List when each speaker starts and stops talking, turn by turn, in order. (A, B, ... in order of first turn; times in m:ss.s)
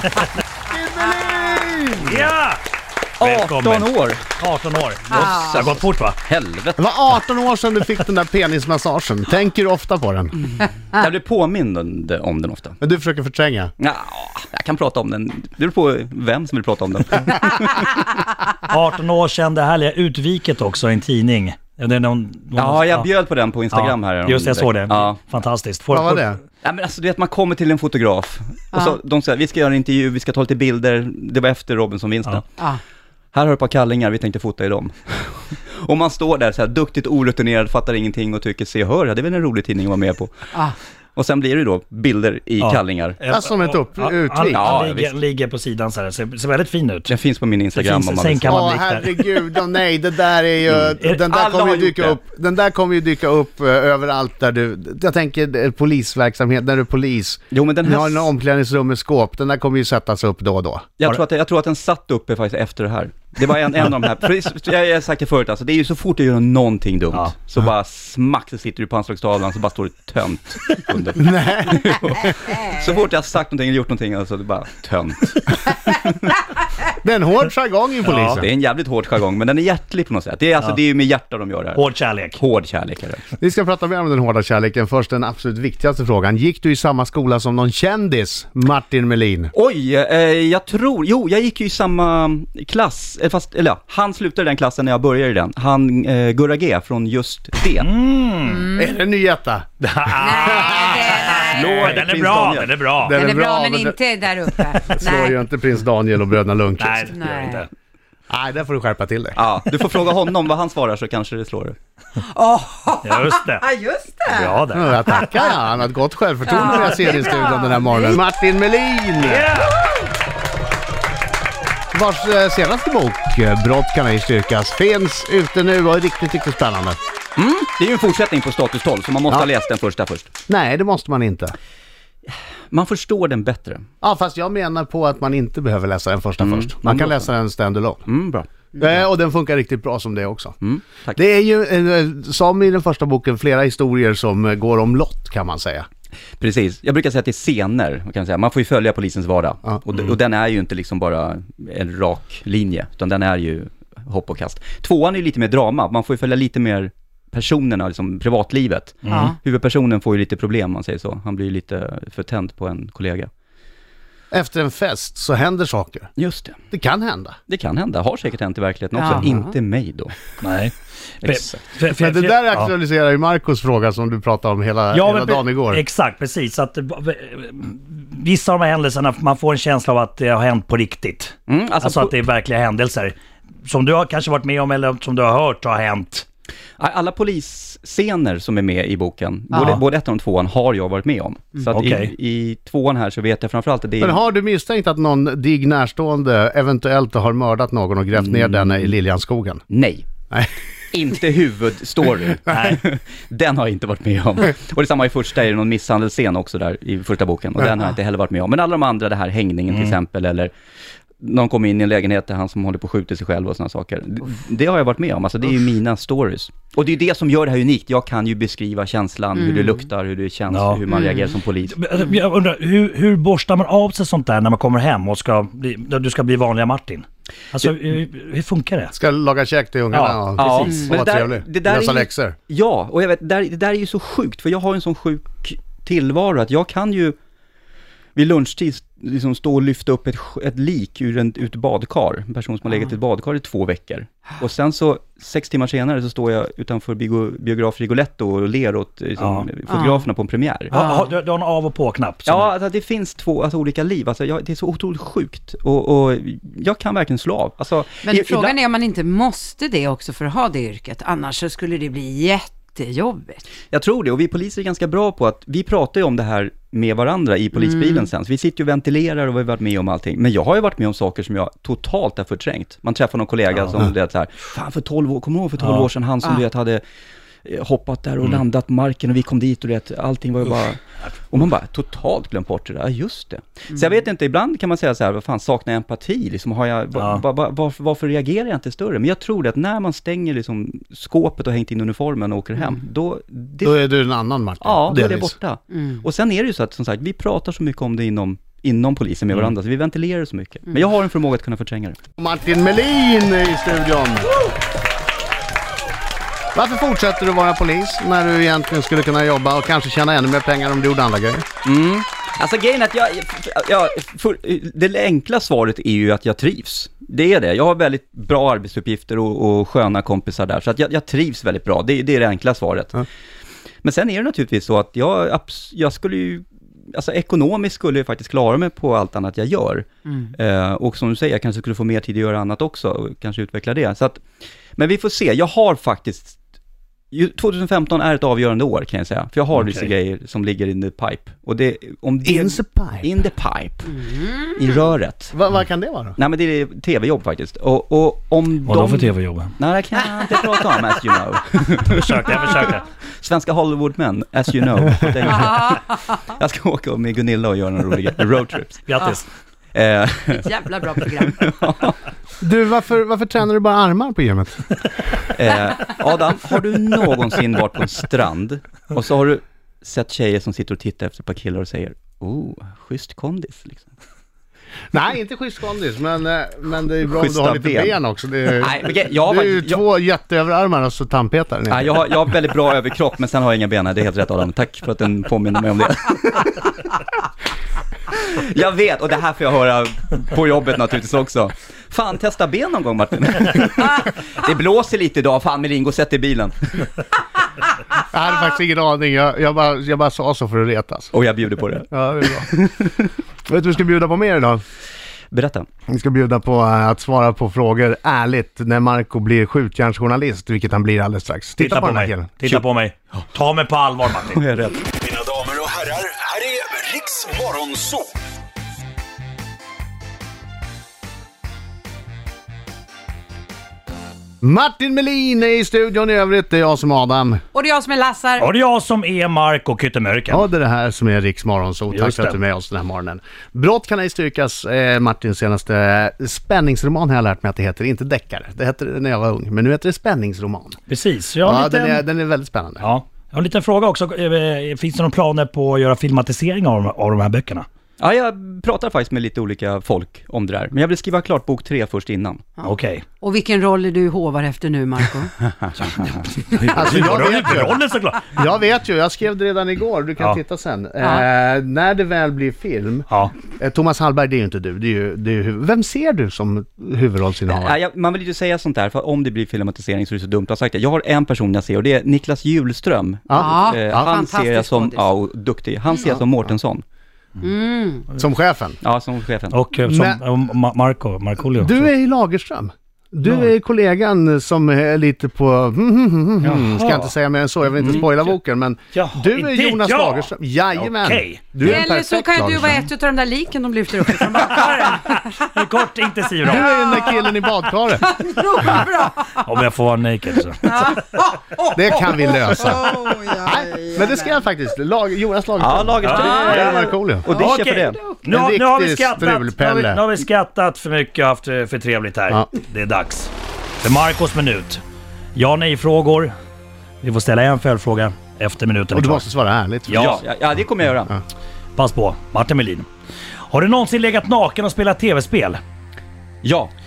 0:00.7-0:02.3 A
0:02.0-0:02.6 B
0:03.2-0:04.2 C
0:03.2-0:06.2 B
0:05.1-0:06.8 C
0:06.8-0:10.4 A
0:10.9-0:12.8 C
0:12.8-0:13.7 A
0:13.8-0:18.0 C
0:18.7-0:23.1 B
0:22.6-0:25.2 C
0:23.7-0:26.4 B
0:25.9-0:26.4 A
0:26.6-0:32.5 C
0:33.3-0:40.5 C
0:41.2-0:43.2 C
0:42.6-0:47.1 B
0:43.3-0:44.6 A
0:44.5-0:45.1 C
0:47.1-0:48.6 C
0:47.7-0:49.4 B
0:48.5-1:00.8 A
0:51.3-0:52.2 C
0:57.5-0:58.3 C
1:01.0-1:16.4 C
1:11.2-1:12.4 A
1:17.0-1:18.5 A
1:18.1-1:18.4 B
1:18.3-1:21.8 C
1:21.7-1:22.4 B
1:22.4-1:23.3 C
1:23.4-1:29.5 A
1:29.5-1:37.9 C
1:37.8-1:38.7 B
1:38.4-1:38.9 D
1:38.8-1:39.7 A
1:39.8-1:43.2 B
1:40.2-1:41.9 D
1:40.4-1:41.0 A
1:41.3-1:42.9 C
1:43.0-1:44.0 A
1:43.2-1:45.3 D
1:44.8-1:47.2 A
1:46.8-1:47.7 B
1:47.1-1:47.6 D
1:48.3-1:49.4 A
1:49.4-1:51.8 C
1:52.2-1:54.6 D
1:53.0-1:53.7 B
1:54.3-1:55.2 B
1:54.8-1:59.5 A
1:56.5-1:58.2 D
1:59.2-1:59.8 B
2:01.9-2:07.0 A
2:07.4-2:10.3 C
2:10.5-2:11.6 A
2:12.3-2:13.8 C
2:14.0-2:18.0 A
2:16.4-2:17.3 C
2:18.1-2:19.0 C
2:18.8-2:20.6 A
2:20.6-2:21.2 C
2:21.1-2:25.9 A
2:26.4-2:43.3 C
2:39.0-2:39.3 B
2:44.3-2:46.1 A
2:46.2-2:46.6 C
2:46.7-2:47.4 A
2:47.5-2:50.2 C
2:49.0-2:49.5 D
2:50.4-2:52.7 B
2:51.2-2:51.6 C
2:51.9-2:55.8 A
2:54.9-3:06.3 B
3:01.5-3:02.2 C
3:06.8-3:14.2 C
3:09.5-3:09.8 B
3:11.7-3:12.1 B
3:14.0-3:19.6 A
3:18.2-3:18.9 C
3:19.7-3:20.1 C
3:20.9-3:30.5 C
3:22.5-3:22.8 B
3:29.7-3:30.0 B
3:31.2-3:41.8 C
3:40.5-3:40.9 B
3:40.9-3:41.2 D
3:41.6-3:49.0 B
3:48.9-3:52.4 A
3:49.9-3:50.9 B
3:50.4-3:57.2 C
3:58.2-4:10.7 C
4:09.2-4:09.5 B
4:09.7-4:10.1 D
4:10.7-4:12.5 B
4:10.7-4:11.1 D
4:12.2-4:18.6 C
4:18.0-4:23.4 D
4:23.7-4:36.8 C
4:27.6-4:28.1 D
4:35.6-4:35.9 B
4:37.4-4:53.8 C
4:47.0-4:47.2 B
4:53.6-4:55.3 A
4:54.6-5:02.0 C
5:02.2-5:04.4 A
5:06.5-5:11.4 A
5:11.6-5:23.1 C
5:23.8-5:34.2 C
5:34.8-5:36.4 C
5:37.1-5:45.4 C
5:39.6-5:39.9 B
5:42.2-5:43.1 A
5:44.0-5:44.4 D
5:45.3-5:46.2 A
5:46.2-5:59.2 C
5:48.7-5:49.6 B
5:51.9-5:52.8 B
5:58.9-5:59.3 B
5:59.7-6:00.5 C
6:00.4-6:01.5 D
6:01.3-6:02.0 C
6:02.4-6:05.2 A
6:05.3-6:13.9 C
6:14.9-6:22.0 A
6:17.1-6:18.0 C
6:18.6-6:19.8 C
6:21.7-6:27.0 C
6:28.1-6:36.9 C
6:38.1-6:41.1 A
6:41.1-6:43.1 C
6:41.9-6:42.5 A
6:43.5-6:44.6 A
6:45.3-6:45.7 C
6:45.9-6:52.3 A
6:51.6-6:54.4 B
6:54.3-6:55.0 C
6:55.2-6:57.6 E
6:55.4-6:56.0 B
6:56.7-6:58.0 B
7:04.4-7:07.4 A
7:07.5-7:08.5 D
7:08.4-7:10.5 B
7:10.3-7:20.8 A
7:11.9-7:12.4 B
7:20.9-7:22.0 B
7:21.4-7:22.9 A
7:22.8-7:27.7 B
7:28.0-7:32.4 C
7:32.6-7:33.0 B
7:33.2-7:35.3 D
7:35.8-7:36.1 B
7:36.4-7:37.4 C
7:36.7-7:38.3 B
7:36.7-7:37.8 A
7:38.4-7:47.8 A
7:47.5-7:56.8 C
7:53.3-7:54.0 A
7:53.4-7:55.1 D
7:57.4-7:58.1 D
7:58.2-7:58.8 A
7:58.8-7:59.6 C
7:59.5-8:01.9 B
7:59.8-8:00.2 A
8:01.5-8:12.9 A
8:03.2-8:03.5 B
8:06.4-8:07.1 B
8:07.8-8:08.1 C
8:07.8-8:08.3 B
8:08.9-8:11.7 B
8:11.6-8:15.5 D
8:14.3-8:16.8 B
8:16.4-8:18.2 A
8:16.8-8:17.0 D
8:18.0-8:19.4 D
8:19.4-8:21.0 B
8:20.6-8:21.7 D
8:21.7-8:27.3 A
8:22.7-8:24.4 D
8:25.6-8:28.0 C
8:26.0-8:33.3 B
8:28.3-8:30.1 A
8:33.8-8:34.8 B
8:35.4-8:36.3 B
8:37.0-8:39.3 B
8:38.9-8:40.2 A
8:39.9-8:40.2 B
8:39.9-8:41.1 C
8:41.8-8:42.9 B
8:43.5-8:45.6 B
8:46.4-8:46.7 C